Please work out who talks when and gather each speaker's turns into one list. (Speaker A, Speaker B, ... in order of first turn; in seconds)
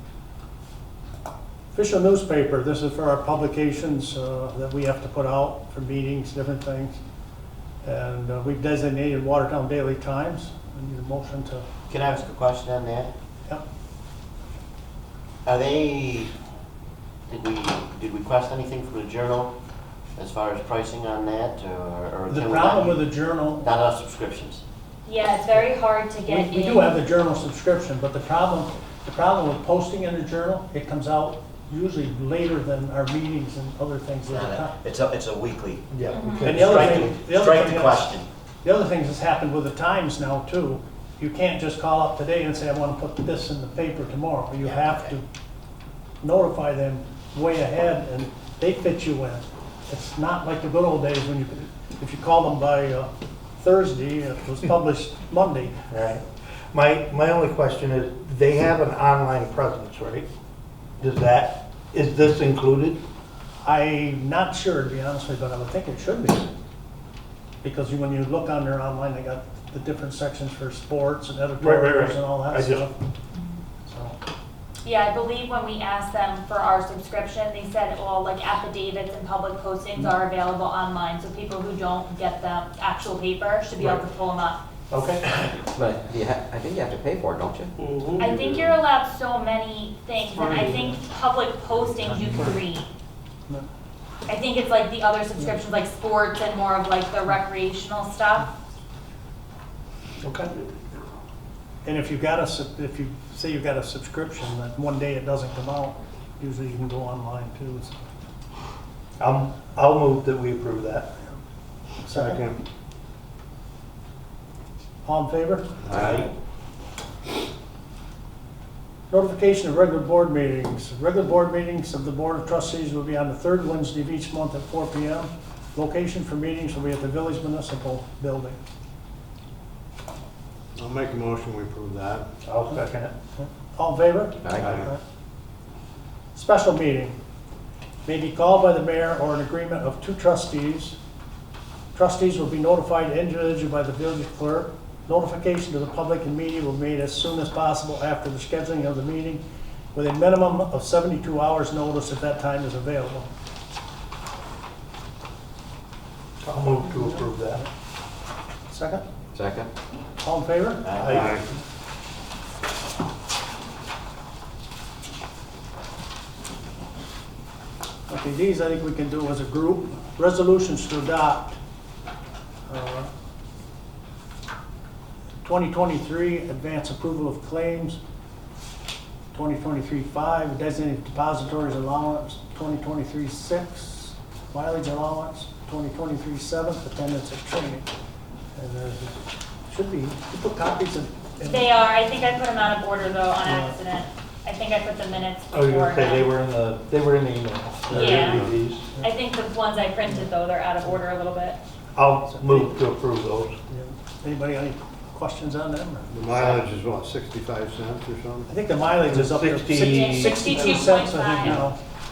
Speaker A: 1.7-7.0, 7.8-11.7, 22.3-23.7, 26.2-34.7, 36.4-45.2, 46.2-55.8, 63.6-66.5, 67.6-72.9, 73.9-74.2, 101.8-108.0, 112.0-112.4, 115.0-115.7, 119.1-128.6, 133.4-135.0, 136.3-137.2, 138.1-141.0, 141.9-149.4, 149.9-153.3, 156.9-157.7, 158.7-159.0, 160.2-161.2, 168.1-171.6, 172.7-173.1, 175.4-178.0, 179.3-187.9, 188.5-191.7, 193.4-193.8, 202.3-202.7, 203.7-206.1, 208.5-211.8
Speaker B: 11.9-13.1, 15.4-16.3, 17.3-19.5, 20.2-23.1, 23.6-24.6, 34.3-38.3, 44.6-45.1, 160.8-161.3, 197.9-198.2, 206.3-206.6
Speaker C: 25.1-26.9, 36.1-36.6, 74.8-84.6, 88.2-92.8, 94.3-98.5, 191.4-196.3, 197.9-198.4, 199.0-201.6, 209.8-211.6
Speaker D: 35.9-37.1, 55.9-60.3, 61.0-63.0, 71.6-72.9, 84.9-85.6, 90.5-90.8, 92.1-92.5, 100.2-100.5, 109.2-111.1, 115.9-116.3, 132.4-133.1, 156.4-157.6, 161.0-161.4, 195.5-198.9, 201.9-203.6, 209.0-210.8
Speaker E: 85.7-87.7, 134.4-134.7, 159.3-159.7
Speaker F: 88.0-88.5, 112.1-112.6, 115.8-116.3, 130.8-132.3, 134.6-134.9, 161.1-161.4, 198.2-198.6, 206.1-208.5